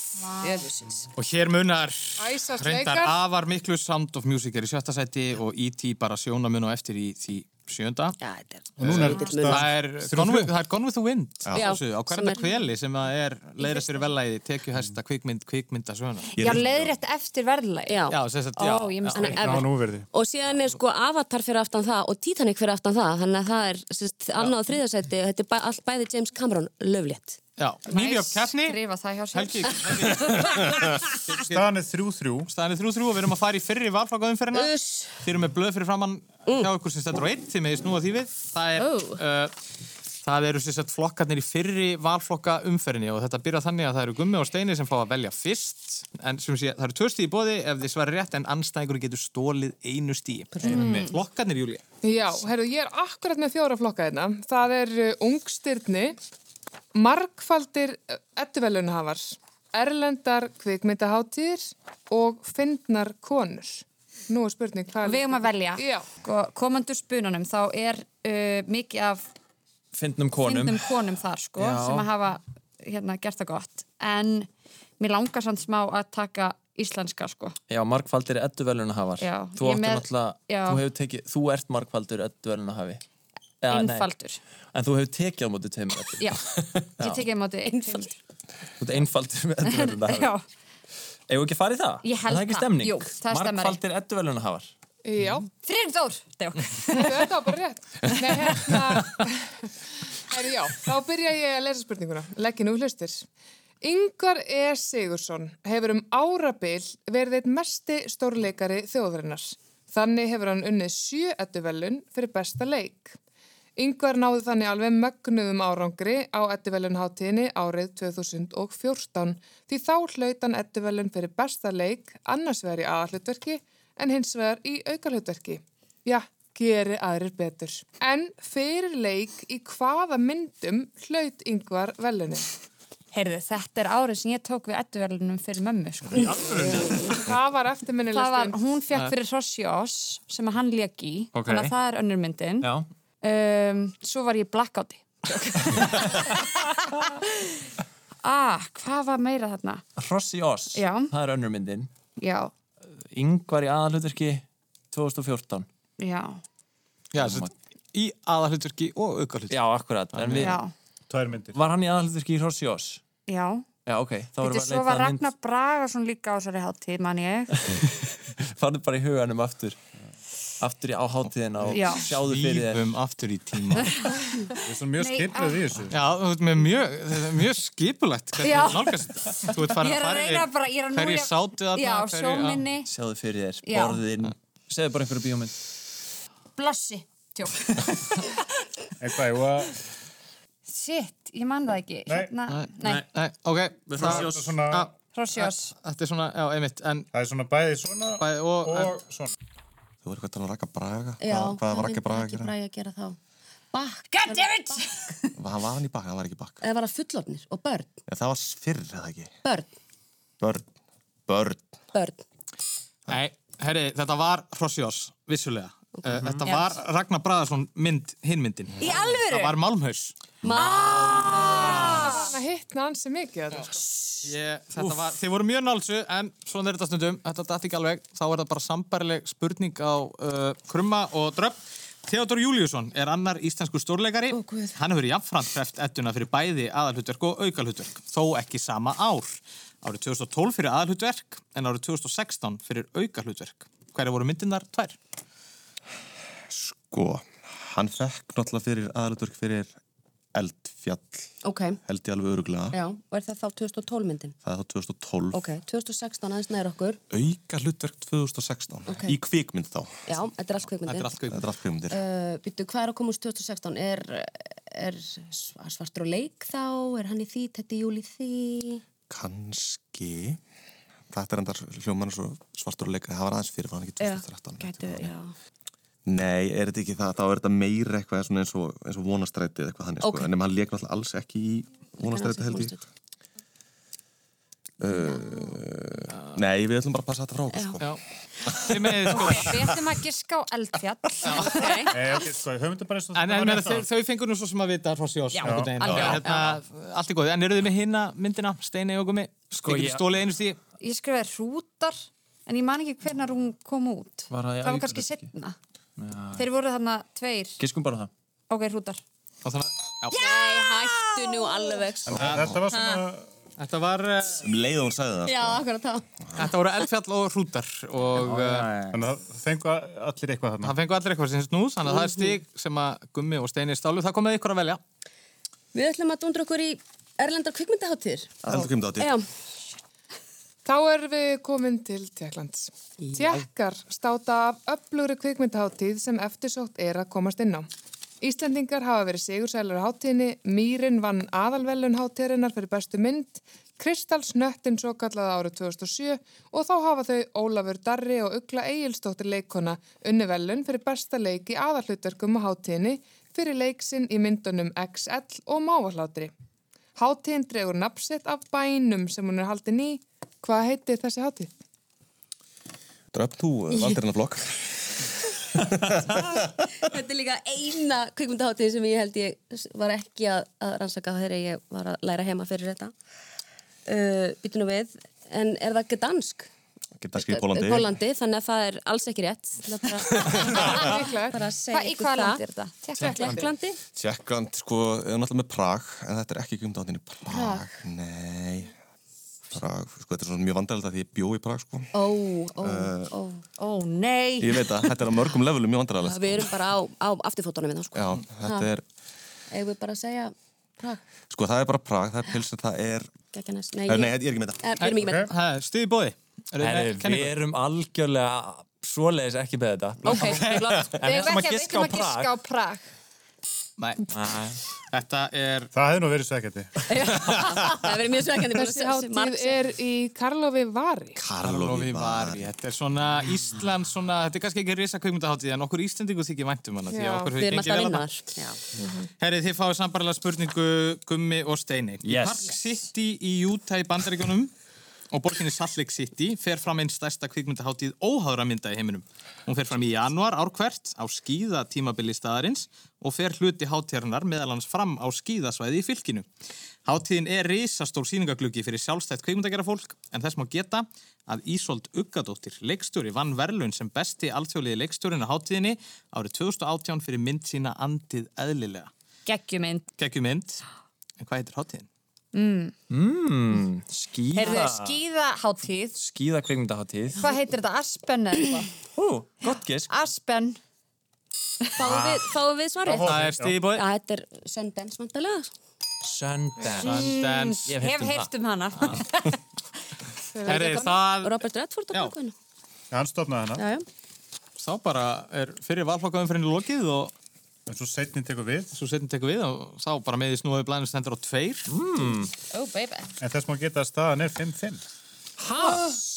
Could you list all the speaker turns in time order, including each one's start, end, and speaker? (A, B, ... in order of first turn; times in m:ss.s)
0:00.2-0:00.6 A
0:00.4-0:01.1 B
0:01.2-0:08.2 C
0:02.2-0:03.2 D
0:08.2-0:09.7 B
0:08.8-0:10.5 E
0:08.8-0:16.3 C
0:11.4-0:11.8 F
0:11.5-0:12.6 B
0:13.6-0:14.0 B
0:16.3-0:17.0 F
0:16.4-0:18.0 A
0:17.9-0:27.4 B
0:18.1-0:19.5 C
0:18.6-0:19.4 A
0:19.2-0:20.1 E
0:27.6-0:28.8 C
0:27.9-0:30.6 A
0:29.3-0:31.6 C
0:31.4-0:32.5 E
0:32.5-0:34.7 C
0:34.5-0:35.2 B
0:35.2-0:39.5 C
0:38.8-0:39.2 B
0:40.2-0:51.8 C
0:50.6-0:51.2 G
0:52.0-0:56.2 D
0:56.9-1:06.1 D
1:05.0-1:09.2 A
1:09.9-1:10.9 G
1:10.4-1:14.5 A
1:11.6-1:12.1 G
1:15.0-1:17.6 A
1:17.7-1:23.0 G
1:19.2-1:20.8 A
1:23.6-1:24.1 G
1:23.7-1:24.4 A
1:24.7-1:27.2 G
1:26.2-1:26.4 A
1:27.0-1:28.1 A
1:27.6-1:28.1 B
1:28.8-1:30.3 G
1:29.6-1:30.4 A
1:31.3-1:34.7 G
1:32.0-1:33.8 A
1:35.0-1:35.5 D
1:35.6-1:37.2 A
1:36.9-1:39.5 D
1:40.3-1:43.2 D
1:43.8-1:53.2 D
1:53.8-2:12.5 D
2:13.1-2:16.4 A
2:16.1-2:17.0 G
2:16.6-2:17.2 B
2:16.6-2:18.6 D
2:18.1-2:22.7 A
2:21.3-2:21.7 G
2:22.6-2:22.9 G
2:23.2-2:27.5 A
2:28.2-2:29.8 A
2:30.0-2:31.9 G
2:30.7-2:31.1 A
2:32.2-2:32.5 A
2:33.1-2:35.7 G
2:36.0-2:36.4 A
2:37.1-2:39.6 C
2:37.2-2:37.5 G
2:39.5-2:40.6 G
2:40.1-2:40.5 C
2:40.4-2:40.7 A
2:41.1-2:41.6 E
2:41.5-2:43.0 G
2:43.3-2:43.6 A
2:43.8-2:45.3 G
2:44.4-2:47.5 A
2:47.6-2:49.8 G
2:50.6-2:52.8 G
2:51.7-2:52.0 A
2:52.0-2:53.9 C
2:53.8-2:55.6 A
2:54.6-2:56.0 E
2:55.9-3:02.6 C
2:58.4-3:02.9 A
3:02.9-3:05.5 G
3:03.6-3:04.0 A
3:06.6-3:07.8 A
3:09.0-3:09.7 E
3:10.7-3:13.0 A
3:12.5-3:17.1 C
3:13.9-3:14.5 G
3:14.0-3:14.9 E
3:15.1-3:15.7 A
3:17.1-3:19.3 E
3:18.2-3:18.9 C
3:20.0-3:22.5 F
3:21.2-3:23.2 B
3:23.7-3:24.8 B
3:24.1-3:25.3 A
3:25.4-3:26.6 F
3:26.6-3:27.9 B
3:28.1-3:29.3 F
3:30.4-3:30.6 F
3:31.3-3:31.7 F
3:31.9-3:32.2 B
3:33.1-3:40.1 C
3:36.0-3:36.6 B
3:38.8-3:39.5 A
3:40.4-3:42.0 B
3:40.4-3:40.7 F
3:40.5-3:42.3 A
3:40.7-3:42.2 C
3:41.2-3:43.8 D
3:44.2-4:05.0 C
3:54.3-3:54.8 B
4:06.5-4:09.7 F
4:10.3-4:11.3 F
4:11.4-4:11.8 B
4:11.8-4:12.8 F
4:12.7-4:14.3 B
4:14.4-4:15.4 F
4:15.3-4:17.0 B
4:17.1-4:19.9 F
4:18.9-4:19.2 B
4:20.1-4:21.2 B
4:20.8-4:21.4 C
4:21.2-4:22.0 F
4:21.9-4:28.8 B
4:29.1-4:30.4 F
4:31.1-4:35.1 F
4:34.0-4:35.3 B
4:36.0-4:42.8 F
4:40.0-4:40.3 B
4:42.0-4:42.8 B
4:44.8-4:48.0 F
4:44.9-4:45.6 B
4:47.5-4:47.8 B
4:48.6-4:49.5 C
4:48.7-4:49.5 F
4:49.1-4:49.4 B
4:49.2-4:51.9 A
4:51.3-4:51.9 B
4:51.9-4:53.9 E
4:53.1-5:00.6 C
4:55.3-4:56.2 A
4:55.4-4:56.2 E
4:56.0-4:56.5 B
4:59.6-5:00.0 G
5:00.8-5:05.6 A
5:04.3-5:05.3 G
5:06.0-5:06.4 G
5:06.3-5:07.6 A
5:07.6-5:08.1 G
5:08.5-5:09.0 A
5:09.4-5:10.3 C
5:10.1-5:13.0 B
5:12.0-5:13.3 E
5:12.2-5:12.5 C
5:12.2-5:12.5 F
5:13.6-5:14.4 C
5:14.4-5:15.6 F
5:15.2-5:16.4 B
5:16.4-5:18.7 C
5:18.2-5:18.8 G
5:18.9-5:20.7 E
5:20.6-5:24.8 C
5:21.9-5:22.4 B
5:25.7-5:29.2 B
5:28.4-5:29.1 F
5:30.6-5:37.7 D
5:33.0-5:33.4 B
5:38.2-5:56.3 D
5:57.0-6:01.5 D
6:03.1-6:05.0 F
6:03.7-6:04.0 B
6:05.6-6:06.5 F
6:06.0-6:12.9 B
6:13.8-6:16.5 B
6:17.0-6:17.9 F
6:17.2-6:22.4 B
6:20.6-6:21.4 D
6:21.7-6:23.4 A
6:23.0-6:23.5 D
6:23.0-6:23.8 B
6:23.9-6:28.7 F
6:27.3-6:27.7 B
6:29.5-6:31.9 F
6:31.9-6:33.4 B
6:32.6-6:33.1 F
6:33.6-6:34.6 A
6:34.4-6:36.5 F
6:36.0-6:38.7 B
6:37.9-6:38.8 F
6:39.5-6:41.0 B
6:41.3-6:43.1 F
6:43.3-6:45.3 B
6:43.9-6:44.7 F
6:44.8-6:47.3 C
6:45.0-6:45.3 E
6:46.6-6:52.3 G
6:50.0-6:52.8 A
6:50.2-6:50.6 B
6:53.8-6:54.1 C
6:54.1-6:54.6 G
6:54.9-6:55.7 C
6:55.7-6:56.7 E
6:56.9-6:59.6 B
6:58.5-7:01.2 D
7:01.2-7:02.5 F
7:01.4-7:08.0 C
7:06.9-7:07.3 D
7:07.4-7:09.1 B
7:09.2-7:14.5 C
7:12.0-7:12.6 G
7:15.1-7:26.3 C
7:26.8-7:38.9 C
7:39.2-7:39.9 A
7:40.0-7:40.6 C
7:41.2-7:41.9 C
7:42.3-7:42.7 A
7:42.9-7:45.0 G
7:44.3-7:46.0 A
7:46.0-7:47.3 G
7:47.2-7:48.7 A
7:49.0-7:49.9 G
7:49.5-7:50.6 A
7:51.8-7:55.5 B
7:51.8-7:52.2 G
7:52.8-7:53.6 E
7:52.8-7:53.8 C
7:56.0-7:58.3 G
7:56.8-7:59.4 A
7:56.8-7:57.7 C
8:00.4-8:02.3 B
8:00.4-8:00.8 D
8:00.4-8:01.4 C
8:02.9-8:03.6 E
8:03.6-8:03.8 B
8:04.6-8:07.1 C
8:07.7-8:08.7 E
8:08.7-8:11.7 C
8:11.7-8:12.3 G
8:12.5-8:13.1 B
8:13.2-8:14.8 E
8:15.4-8:15.9 G